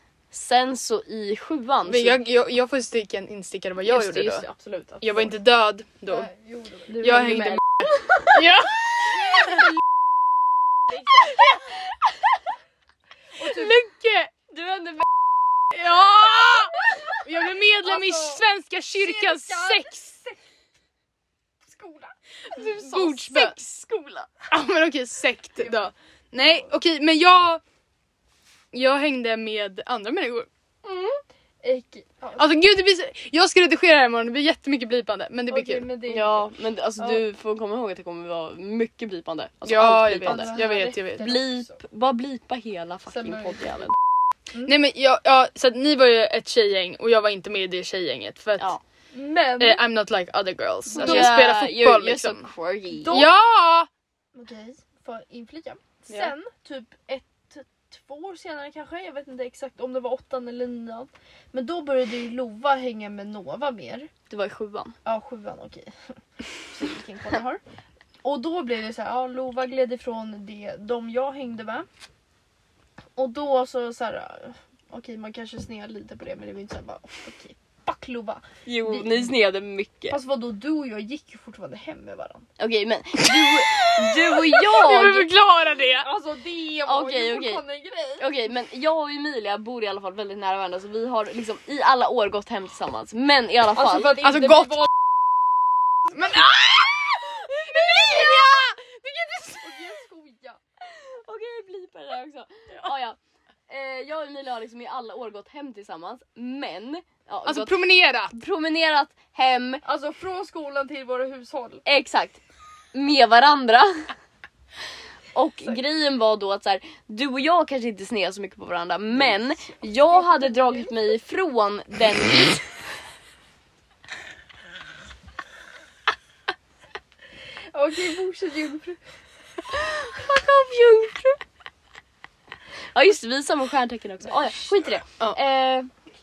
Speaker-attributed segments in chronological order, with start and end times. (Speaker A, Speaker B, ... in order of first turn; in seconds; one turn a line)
Speaker A: 0.3-2.2
Speaker B: 1.9-4.5
Speaker A: 3.8-5.3
Speaker B: 5.0-6.3
Speaker C: 6.1-7.5
Speaker B: 7.0-9.7
Speaker A: 7.0-8.4
Speaker C: 9.1-9.7
Speaker C: 10.9-11.4
Speaker C: 13.4-13.8
Speaker B: 13.4-14.3
Speaker A: 14.5-15.1
Speaker B: 15.7-20.1
Speaker C: 17.8-18.4
Speaker C: 18.9-20.4
Speaker C: 21.6-22.9
Speaker B: 22.5-23.6
Speaker A: 22.5-24.3
Speaker B: 24.5-27.6
Speaker B: 28.7-30.5
Speaker A: 30.9-31.2
Speaker C: 31.6-32.5
Speaker B: 32.4-35.9
Speaker C: 35.5-36.5
Speaker A: 36.1-44.0
Speaker B: 39.6-41.3
Speaker C: 40.2-41.7
Speaker C: 43.1-43.6
Speaker B: 44.6-48.7
Speaker C: 49.1-49.8
Speaker B: 49.6-52.5
Speaker C: 50.9-51.4
Speaker A: 50.9-53.2
Speaker C: 53.0-53.3
Speaker B: 53.1-53.9
Speaker C: 54.3-64.1
Speaker A: 64.3-65.0
Speaker C: 65.0-65.9
Speaker C: 66.7-67.6
Speaker C: 68.2-71.9
Speaker C: 73.2-79.3
Speaker A: 78.7-80.2
Speaker C: 80.1-82.5
Speaker A: 82.6-85.3
Speaker B: 83.2-86.1
Speaker C: 86.0-88.2
Speaker A: 86.9-87.6
Speaker A: 88.2-94.3
Speaker C: 93.8-94.9
Speaker B: 94.2-94.9
Speaker B: 96.1-98.6
Speaker A: 97.6-98.7
Speaker C: 98.0-98.7
Speaker C: 99.4-100.6
Speaker A: 100.8-109.8
Speaker B: 107.5-108.3
Speaker C: 109.8-111.8
Speaker A: 111.8-112.4
Speaker A: 112.9-114.1
Speaker A: 115.3-122.6
Speaker C: 120.1-120.9
Speaker C: 127.7-129.0
Speaker A: 129.7-131.4
Speaker A: 132.9-135.9